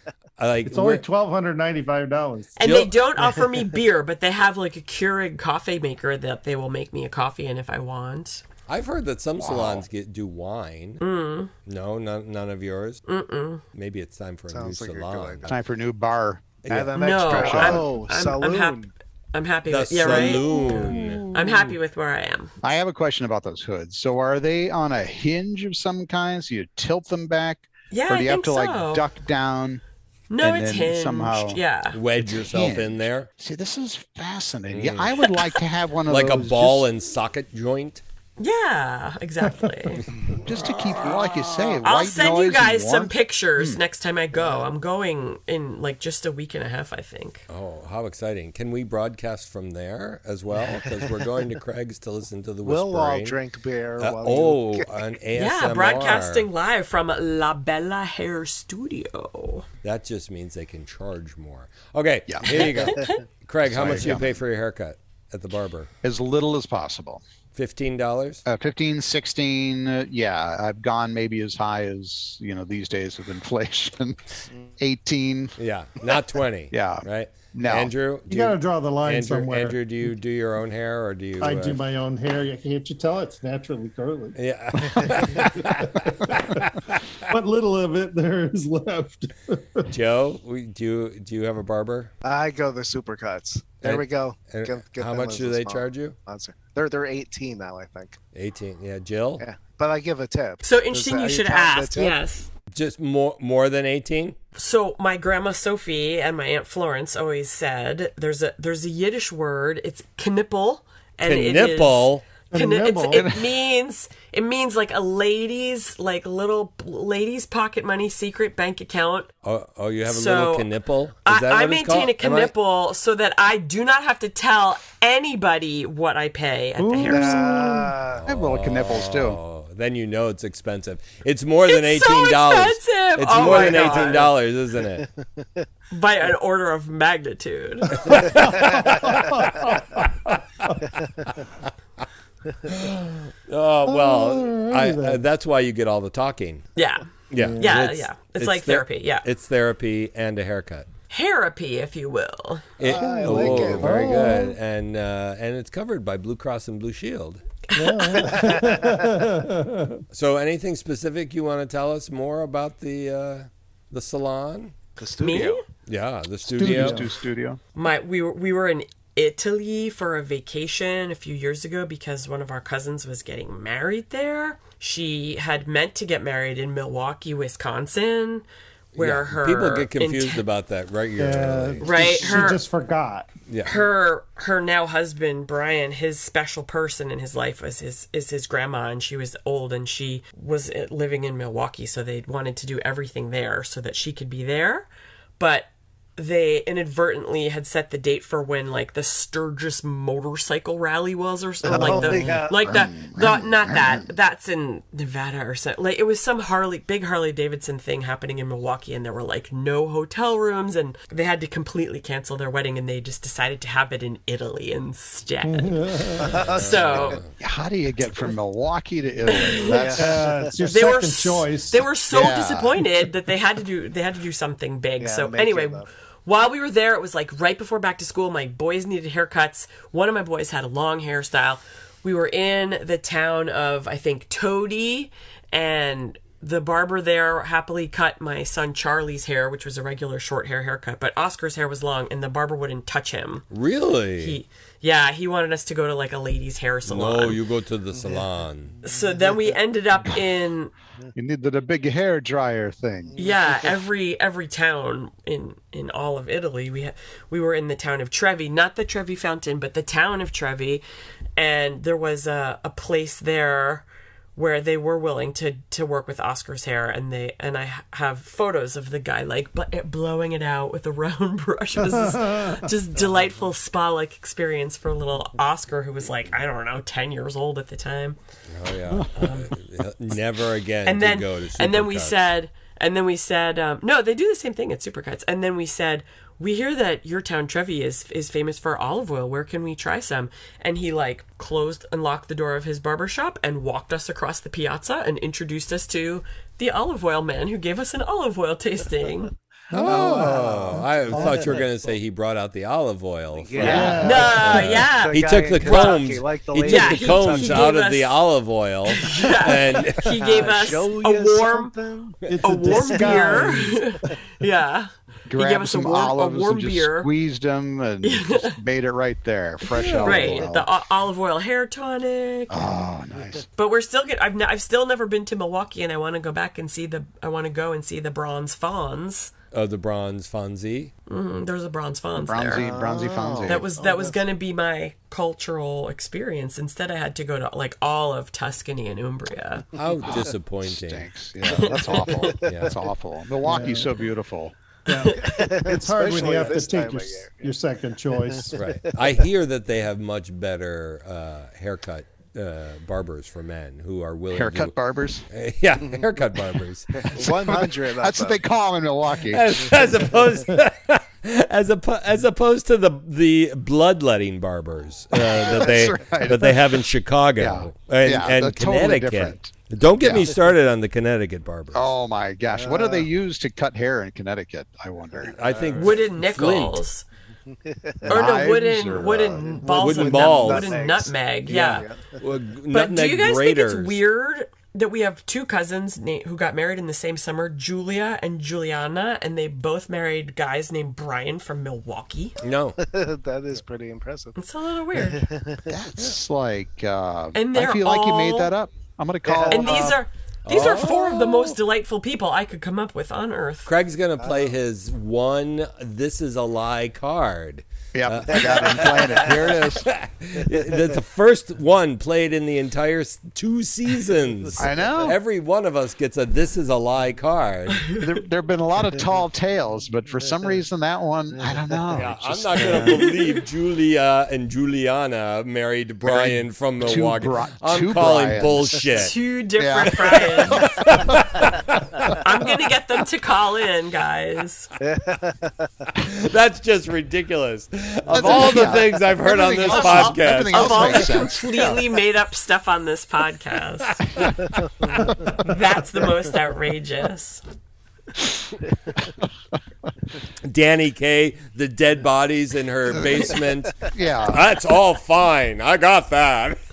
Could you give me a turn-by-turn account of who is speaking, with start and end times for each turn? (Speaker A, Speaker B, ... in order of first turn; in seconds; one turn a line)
Speaker A: 0.4-1.0
Speaker B: 0.7-2.6
Speaker C: 2.6-8.4
Speaker A: 2.6-2.9
Speaker A: 8.7-11.0
Speaker D: 9.4-9.8
Speaker C: 11.0-11.5
Speaker A: 11.7-13.0
Speaker C: 13.1-13.6
Speaker A: 13.7-15.6
Speaker E: 14.5-15.6
Speaker D: 15.5-16.6
Speaker A: 16.6-17.8
Speaker E: 16.7-18.9
Speaker C: 16.9-22.5
Speaker D: 17.3-17.9
Speaker A: 19.7-21.2
Speaker D: 20.0-21.7
Speaker D: 22.6-29.8
Speaker C: 27.9-29.1
Speaker C: 30.3-32.0
Speaker D: 30.4-31.6
Speaker A: 31.9-33.3
Speaker D: 32.2-36.8
Speaker A: 34.7-35.2
Speaker C: 35.2-35.6
Speaker A: 36.1-38.0
Speaker C: 38.4-40.1
Speaker D: 40.4-43.8
Speaker A: 40.5-41.8
Speaker C: 41.8-47.4
Speaker A: 47.5-53.4
Speaker E: 50.5-51.1
Speaker E: 52.6-54.9
Speaker A: 54.0-56.5
Speaker C: 55.3-59.6
Speaker A: 59.8-65.9
Speaker D: 62.3-63.0
Speaker C: 62.6-63.2
Speaker D: 63.6-64.4
Speaker D: 66.0-67.2
Speaker A: 67.5-68.4
Speaker D: 68.5-75.5
Speaker A: 75.6-81.8
Speaker D: 76.7-77.9
Speaker B: 78.3-79.8
Speaker B: 81.4-86.7
Speaker A: 84.3-87.0
Speaker B: 87.3-89.9
Speaker A: 89.9-92.1
Speaker E: 92.2-98.2
Speaker A: 93.8-96.2
Speaker A: 98.3-99.4
Speaker E: 99.4-102.2
Speaker C: 100.6-102.5
Speaker A: 102.7-104.4
Speaker C: 104.5-119.3
Speaker A: 111.2-112.2
Speaker B: 112.5-113.3
Speaker D: 113.1-113.4
Speaker A: 119.4-122.5
Speaker C: 120.0-120.7
Speaker C: 121.2-127.6
Speaker B: 126.8-128.0
Speaker E: 127.0-128.2
Speaker A: 128.1-135.1
Speaker D: 128.2-129.4
Speaker C: 131.7-134.3
Speaker E: 133.4-134.3
Speaker E: 135.4-135.6
Speaker C: 135.9-138.2
Speaker B: 138.0-140.9
Speaker A: 138.0-140.7
Speaker E: 138.2-138.9
Speaker A: 142.6-146.7
Speaker B: 143.8-145.2
Speaker C: 146.8-149.2
Speaker A: 147.3-150.9
Speaker B: 147.3-147.8
Speaker C: 151.1-152.7
Speaker A: 152.8-157.4
Speaker E: 152.8-154.1
Speaker B: 153.0-154.5
Speaker C: 157.7-158.5
Speaker B: 157.7-160.0
Speaker E: 158.3-159.0
Speaker A: 160.1-164.7
Speaker E: 165.0-165.6
Speaker C: 165.2-165.6
Speaker A: 165.9-167.0
Speaker D: 166.4-167.6
Speaker B: 166.6-167.1
Speaker C: 167.7-178.4
Speaker A: 178.9-182.4
Speaker C: 178.9-180.4
Speaker B: 181.2-183.3
Speaker C: 181.8-182.6
Speaker A: 183.5-183.8
Speaker C: 183.6-194.9
Speaker C: 195.4-217.2
Speaker E: 201.6-202.8
Speaker D: 201.7-204.1
Speaker B: 215.4-216.4
Speaker E: 216.2-217.2
Speaker A: 216.3-217.3
Speaker D: 217.4-220.3
Speaker C: 219.2-219.9
Speaker E: 219.6-220.5
Speaker B: 219.9-221.8
Speaker C: 220.6-243.5
Speaker D: 222.1-222.9
Speaker E: 225.0-225.9
Speaker A: 243.5-244.4
Speaker C: 244.2-247.4
Speaker A: 246.8-248.8
Speaker C: 248.8-250.7
Speaker E: 248.9-249.3
Speaker D: 251.1-253.2
Speaker C: 253.2-260.8
Speaker C: 261.4-263.8
Speaker C: 264.4-278.2
Speaker B: 271.8-272.7
Speaker A: 278.5-282.2
Speaker C: 279.1-279.5
Speaker C: 280.8-299.3
Speaker B: 299.7-301.6
Speaker A: 299.7-310.2
Speaker E: 299.9-301.6
Speaker E: 303.4-307.7
Speaker B: 303.6-304.6
Speaker C: 304.0-306.0
Speaker C: 306.6-308.2
Speaker C: 308.9-311.7
Speaker E: 310.0-314.1
Speaker B: 312.3-314.1
Speaker C: 312.4-317.1
Speaker D: 315.3-320.7
Speaker C: 318.0-318.6
Speaker C: 319.7-322.7
Speaker D: 322.5-323.4
Speaker C: 323.6-329.3
Speaker A: 329.5-330.9
Speaker C: 331.1-332.6
Speaker D: 332.2-333.7
Speaker E: 332.5-334.1
Speaker C: 333.5-339.7
Speaker A: 339.7-341.1
Speaker D: 340.0-344.5
Speaker C: 341.4-342.3
Speaker E: 341.6-342.8
Speaker A: 342.4-342.8
Speaker B: 343.4-343.9
Speaker B: 344.9-348.6
Speaker C: 344.9-345.3
Speaker E: 345.1-347.5
Speaker E: 348.1-349.2
Speaker A: 348.5-354.7
Speaker D: 354.3-355.3
Speaker A: 355.3-357.2
Speaker E: 356.9-358.4
Speaker D: 357.2-360.1
Speaker A: 359.3-371.9
Speaker D: 365.1-366.8
Speaker D: 367.4-370.3
Speaker D: 371.7-375.4
Speaker E: 372.5-373.1
Speaker E: 375.2-376.0
Speaker A: 375.2-376.8
Speaker C: 375.7-377.0
Speaker E: 377.5-378.3
Speaker C: 378.1-381.9
Speaker D: 378.1-379.6
Speaker E: 379.4-382.2
Speaker A: 379.7-380.8
Speaker A: 382.2-384.0
Speaker C: 382.7-392.4
Speaker A: 392.4-392.8
Speaker E: 392.8-394.4
Speaker C: 394.4-395.2
Speaker E: 394.9-395.8
Speaker D: 395.7-400.0
Speaker C: 397.3-398.5
Speaker E: 399.2-400.0
Speaker C: 399.5-403.7
Speaker A: 400.5-401.6
Speaker A: 403.6-417.9
Speaker E: 404.2-404.5
Speaker D: 407.9-409.9
Speaker E: 408.4-409.4
Speaker E: 410.5-410.9
Speaker E: 414.4-415.1
Speaker D: 414.6-415.2
Speaker D: 417.9-423.1
Speaker E: 421.4-421.7
Speaker A: 421.9-429.1
Speaker C: 422.6-423.4
Speaker D: 426.0-431.3
Speaker C: 428.9-430.9
Speaker A: 430.5-432.2
Speaker E: 430.6-431.0
Speaker C: 432.2-434.7
Speaker E: 434.8-435.9
Speaker A: 435.9-441.0
Speaker D: 438.1-441.8
Speaker C: 439.7-444.3
Speaker A: 444.1-444.3
Speaker E: 444.6-445.0
Speaker B: 444.9-445.6
Speaker D: 445.0-445.5
Speaker C: 445.4-447.4
Speaker A: 450.4-456.6
Speaker D: 453.0-453.3
Speaker D: 453.9-454.4